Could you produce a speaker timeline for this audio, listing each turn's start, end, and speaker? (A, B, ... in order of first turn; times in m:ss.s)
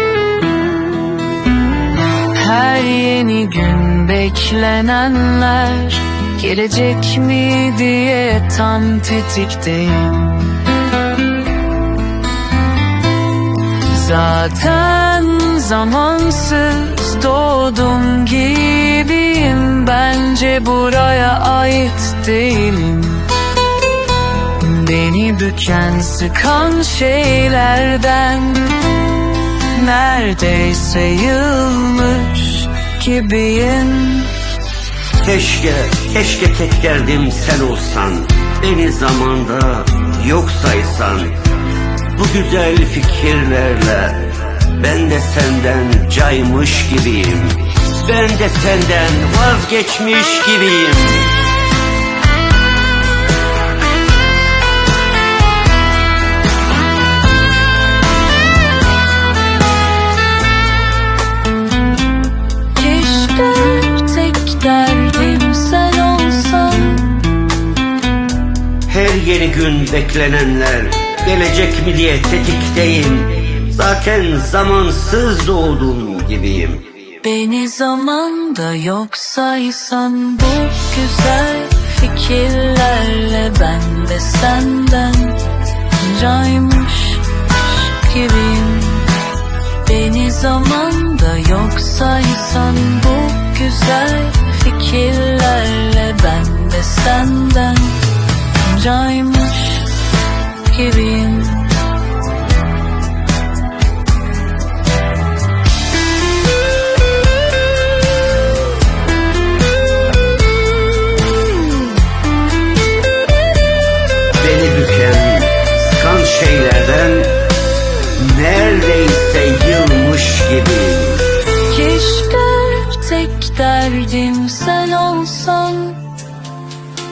0:02.3-0:10.6 A
0:13.9-0:23.3 A
0:24.6-0:28.9 A
0:29.7-0:34.3 A
0:35.2-0:41.3 B
0:42.1-0:51.3 B
1:02.7-1:07.4 A
1:08.9-1:16.8 B
1:17.2-1:25.4 A
1:26.0-1:29.2 A
1:29.8-1:40.0 A
1:40.6-1:41.8 A
1:54.4-1:57.3 B
1:58.2-2:01.2 B
2:01.6-2:06.1 A